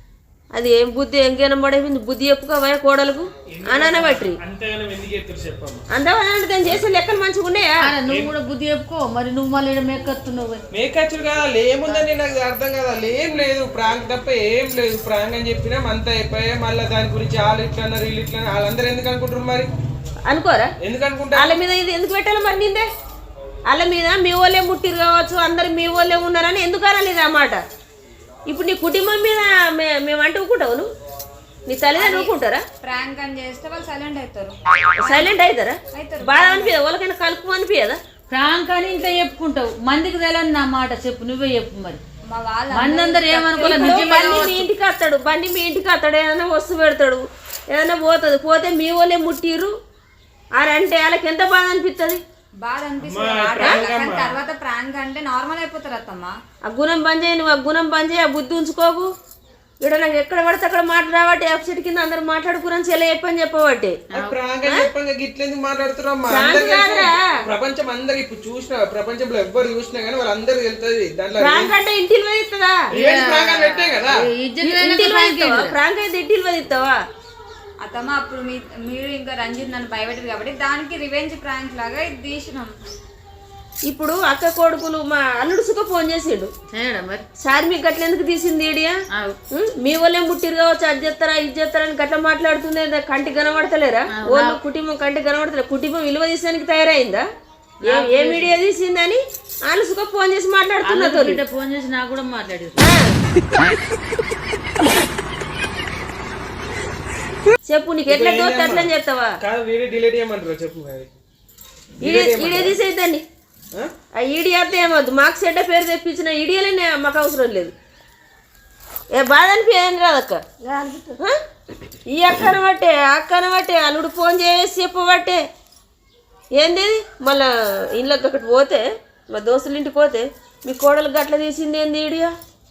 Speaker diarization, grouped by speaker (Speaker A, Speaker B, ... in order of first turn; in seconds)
Speaker A: 0.6-4.4, 5.9-7.8, 20.3-20.7, 21.3-22.9, 23.7-27.6, 28.5-30.9, 31.7-32.6, 35.0-38.0, 43.6-49.7, 50.6-52.2, 56.7-59.1, 59.8-64.0, 66.3-67.1, 71.4-72.8, 74.6-77.0, 83.9-86.5, 87.4-88.9, 89.5-97.2, 97.9-101.4, 102.8-103.1, 107.7-109.3, 112.0-113.2, 114.2-117.7, 119.1-121.3, 122.1-125.4, 126.5-132.3
Speaker B: 3.5-5.8, 10.7-19.7, 20.9-21.6, 53.0-54.4, 64.2-71.7, 73.0-74.1, 108.1-111.1, 112.0-112.8
Speaker C: 7.8-10.6, 38.3-42.0, 42.7-44.7, 72.9-75.8, 86.7-87.2, 94.1-94.6, 97.8-98.6, 100.8-102.9
Speaker D: 31.9-35.3, 35.9-36.8, 42.3-44.5, 52.6-56.3, 77.8-83.0